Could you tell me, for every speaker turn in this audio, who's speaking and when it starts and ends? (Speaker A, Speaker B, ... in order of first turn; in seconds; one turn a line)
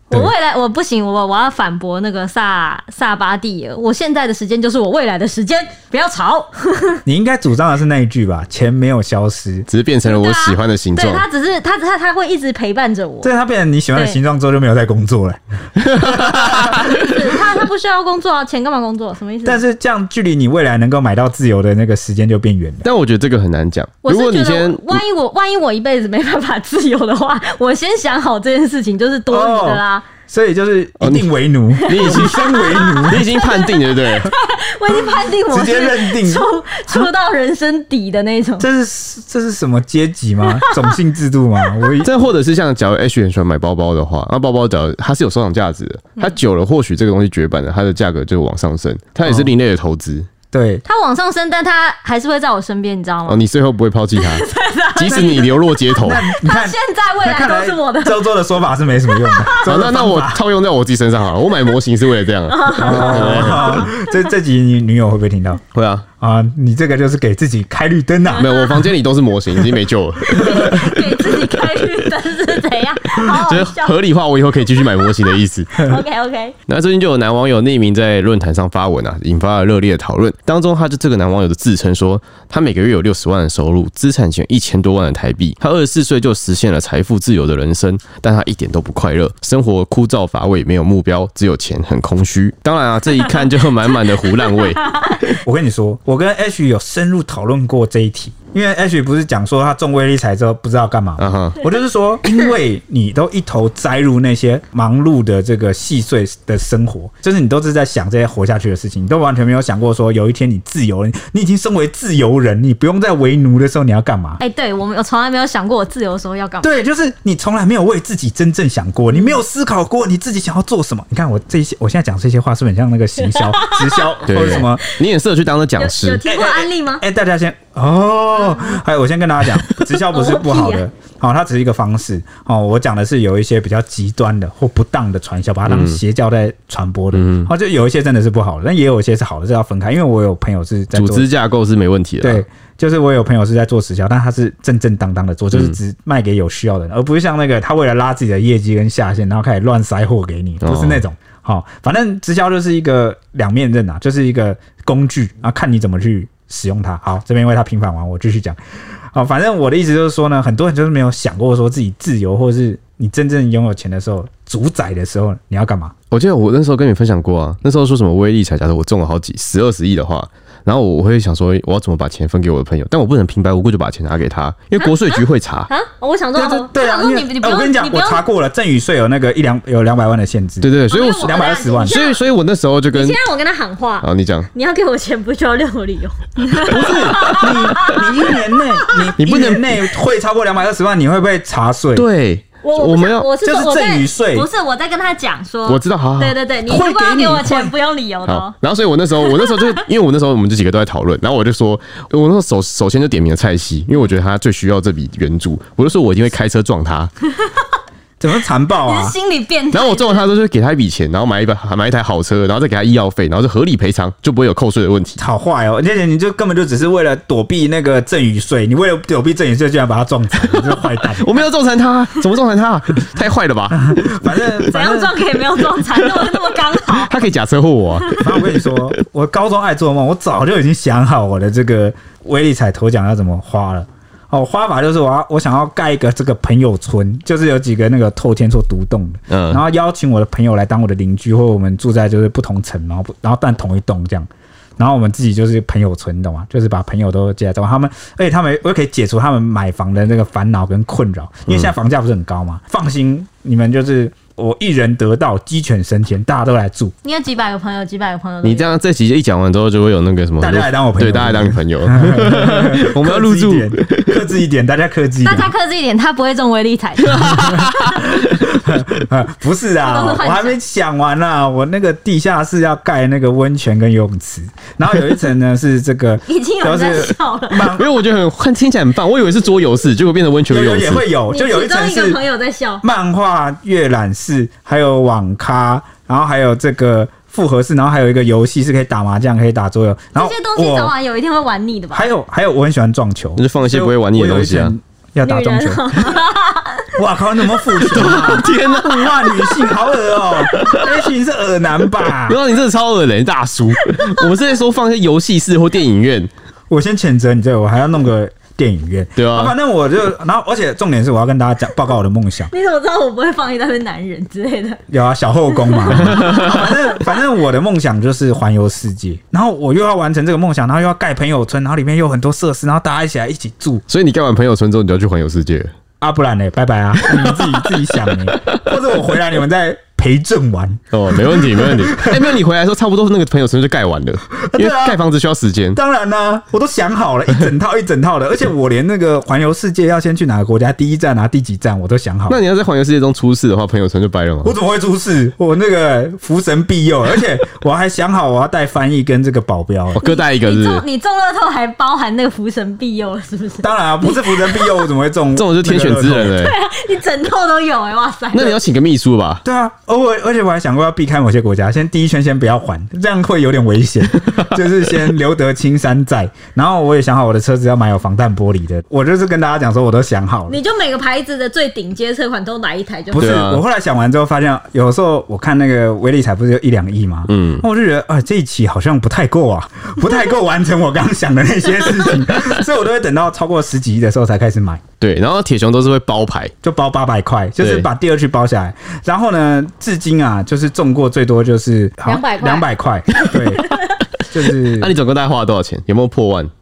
Speaker A: 0.1-7.0
Speaker B: 7.0-9.7
Speaker C: 9.7-11.2
Speaker A: 10.0-13.3
Speaker B: 13.2-17.1
Speaker C: 15.8-16.8
Speaker A: 16.5-19.6
Speaker B: 19.4-22.9
Speaker C: 22.8-25.0
Speaker A: 24.0-30.1
Speaker B: 29.3-33.3
Speaker C: 31.0-31.3
Speaker A: 31.8-38.7
Speaker C: 31.8-34.3
Speaker B: 35.5-37.1
Speaker B: 38.6-42.1
Speaker A: 40.6-40.9
Speaker C: 42.0-50.3
Speaker B: 49.2-49.5
Speaker B: 50.5-50.8
Speaker A: 50.8-53.4
Speaker C: 53.3-56.2
Speaker A: 54.1-58.3
Speaker B: 55.0-60.4
Speaker A: 59.0-59.7
Speaker C: 59.6-63.9
Speaker A: 62.5-64.1
Speaker B: 62.8-65.6
Speaker C: 65.7-66.0
Speaker B: 66.2-68.5
Speaker A: 68.3-68.9
Speaker C: 68.4-70.8
Speaker A: 70.3-74.0
Speaker B: 70.4-71.0
Speaker C: 73.2-75.9
Speaker A: 74.8-75.1
Speaker A: 75.7-76.5
Speaker C: 76.7-95.3
Speaker A: 94.2-95.2
Speaker B: 95.4-114.4
Speaker C: 101.2-101.6
Speaker A: 114.4-116.7
Speaker B: 116.6-124.8
Speaker A: 123.2-124.2
Speaker C: 124.2-126.2
Speaker A: 125.8-127.0
Speaker B: 126.2-141.3
Speaker A: 128.4-128.8
Speaker A: 130.1-130.8
Speaker C: 135.7-136.0
Speaker C: 137.1-137.5
Speaker C: 140.9-142.4
Speaker B: 142.2-158.6
Speaker C: 150.6-151.0
Speaker B: 159.1-165.9
Speaker C: 166.1-175.7
Speaker A: 174.8-178.2
Speaker B: 176.3-182.0
Speaker C: 180.6-183.2
Speaker A: 180.9-182.2
Speaker A: 182.9-189.1
Speaker C: 184.0-184.5
Speaker B: 186.7-192.1
Speaker C: 189.2-189.8
Speaker C: 191.9-193.3
Speaker A: 192.6-198.5
Speaker B: 193.4-194.5
Speaker C: 195.7-196.4
Speaker B: 196.7-197.7
Speaker C: 198.2-207.1
Speaker A: 199.2-199.8
Speaker B: 208.2-209.1
Speaker A: 208.8-210.2
Speaker C: 209.7-215.2
Speaker B: 215.2-221.4
Speaker C: 220.5-224.1
Speaker B: 223.7-225.2
Speaker A: 224.7-227.1
Speaker C: 225.9-228.8
Speaker A: 228.0-228.2
Speaker B: 228.2-256.9
Speaker C: 239.3-239.6
Speaker A: 257.0-258.7
Speaker C: 258.4-264.2
Speaker B: 260.4-265.5
Speaker A: 265.2-267.7
Speaker C: 267.1-268.3
Speaker B: 267.3-277.9
Speaker A: 269.8-270.6
Speaker A: 276.2-277.8
Speaker C: 277.7-281.0
Speaker B: 280.5-282.2
Speaker A: 281.3-282.8
Speaker B: 282.8-290.9
Speaker A: 290.1-292.1
Speaker B: 291.9-296.2
Speaker C: 293.4-294.7
Speaker A: 295.2-296.9
Speaker B: 296.9-302.4
Speaker C: 297.8-299.7
Speaker C: 300.4-301.0
Speaker C: 302.1-306.3
Speaker A: 303.8-304.3
Speaker B: 306.7-312.5
Speaker C: 309.1-309.5
Speaker A: 312.5-314.8
Speaker B: 314.9-323.8
Speaker A: 315.5-317.0
Speaker C: 315.9-316.6
Speaker C: 323.9-325.7
Speaker B: 326.0-332.4
Speaker C: 327.0-328.6
Speaker C: 330.9-335.8
Speaker B: 334.4-335.0
Speaker B: 335.7-342.4
Speaker C: 342.3-344.6
Speaker B: 344.4-350.0
Speaker C: 349.9-350.8
Speaker A: 350.0-354.9
Speaker B: 353.6-356.4
Speaker C: 355.3-356.5
Speaker A: 356.3-358.6
Speaker C: 358.3-359.4
Speaker B: 359.4-370.6
Speaker A: 370.5-373.4
Speaker B: 373.1-384.8
Speaker C: 373.1-373.6
Speaker C: 377.3-377.6
Speaker C: 385.0-386.5
Speaker B: 386.6-393.7
Speaker C: 387.6-387.9
Speaker A: 392.0-393.9
Speaker B: 394.3-394.9
Speaker C: 394.4-396.5